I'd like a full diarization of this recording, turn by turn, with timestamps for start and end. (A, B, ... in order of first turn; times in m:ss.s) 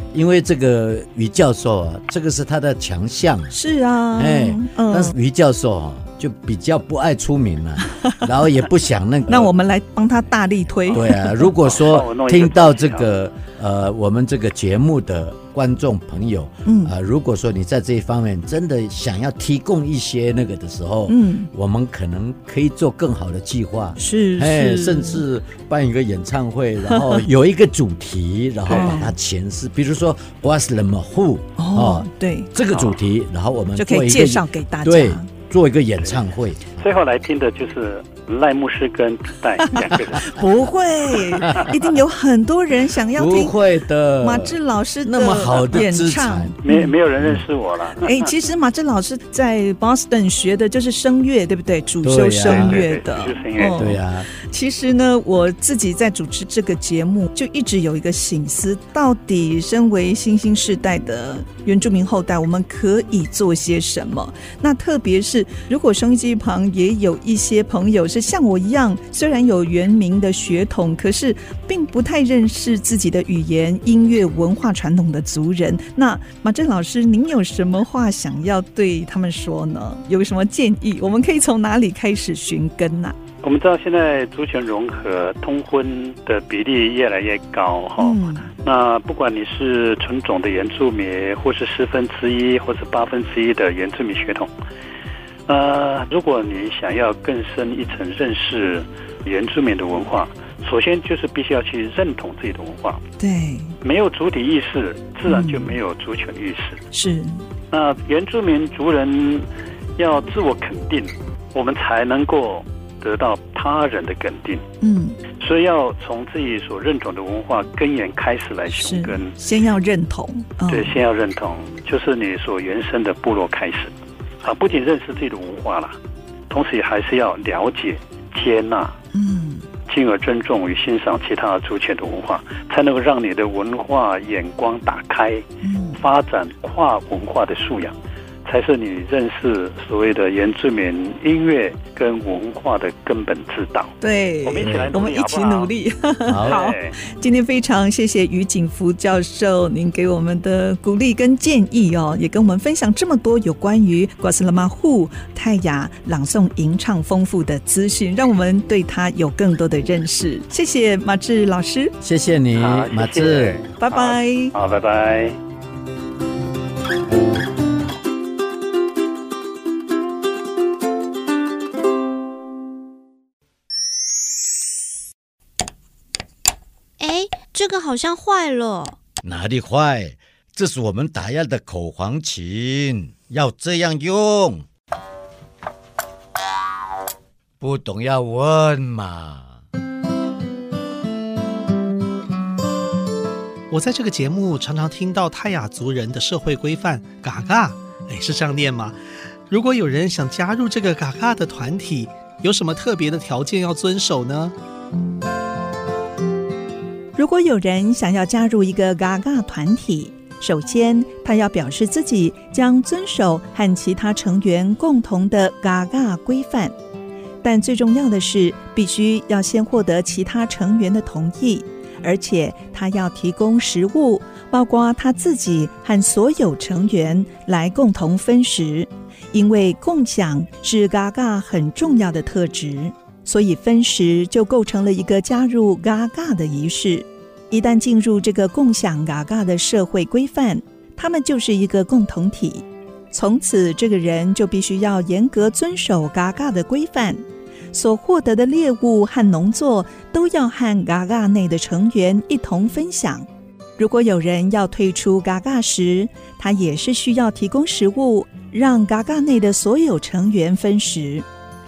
0:00.1-0:03.6 A
0:03.5-0:05.1 B
0:04.1-0:09.5 A
0:07.9-0:08.2 B
0:09.3-0:11.5 B
0:10.9-0:36.7 A
0:11.6-0:13.1 C
0:16.6-0:16.9 B
0:21.1-0:21.5 B
0:24.0-0:25.2 B
0:26.9-0:27.2 B
0:28.7-0:29.1 B
0:31.6-0:32.5 B
0:33.8-0:35.3 B
0:36.8-0:40.3 C
0:39.7-0:43.6 B
0:43.1-0:46.5 A
0:44.2-0:46.9 B
0:46.6-0:48.3 C
0:48.0-1:23.2 B
0:52.0-0:52.8 A
0:52.4-0:53.9 C
0:53.7-0:54.3 A
1:23.4-1:34.5 C
1:28.0-1:28.5 B
1:35.5-1:43.0 C
1:43.2-1:43.7 B
1:43.8-1:46.8 C
1:45.2-1:45.8 B
1:46.9-1:47.4 B
1:47.7-1:54.6 C
1:54.8-1:55.2 B
1:55.4-1:59.3 C
1:58.7-2:00.9 B
2:00.7-2:03.9 C
2:04.4-2:06.0 C
2:06.5-2:09.0 C
2:09.1-2:09.6 B
2:09.9-2:17.9 C
2:15.6-2:16.0 B
2:18.4-2:25.7 C
2:24.0-2:41.9 B
2:24.6-2:24.9 A
2:26.2-2:26.6 A
2:26.4-2:27.0 C
2:42.0-2:43.6 A
2:42.6-2:45.4 C
2:43.8-2:44.5 B
2:57.0-2:59.0 D
2:59.2-3:04.6 A
3:07.6-3:09.6 A
3:13.7-3:19.0 E
3:19.5-3:24.5 E
3:27.1-3:36.7 B
3:37.4-4:13.2 B
4:13.8-4:21.2 B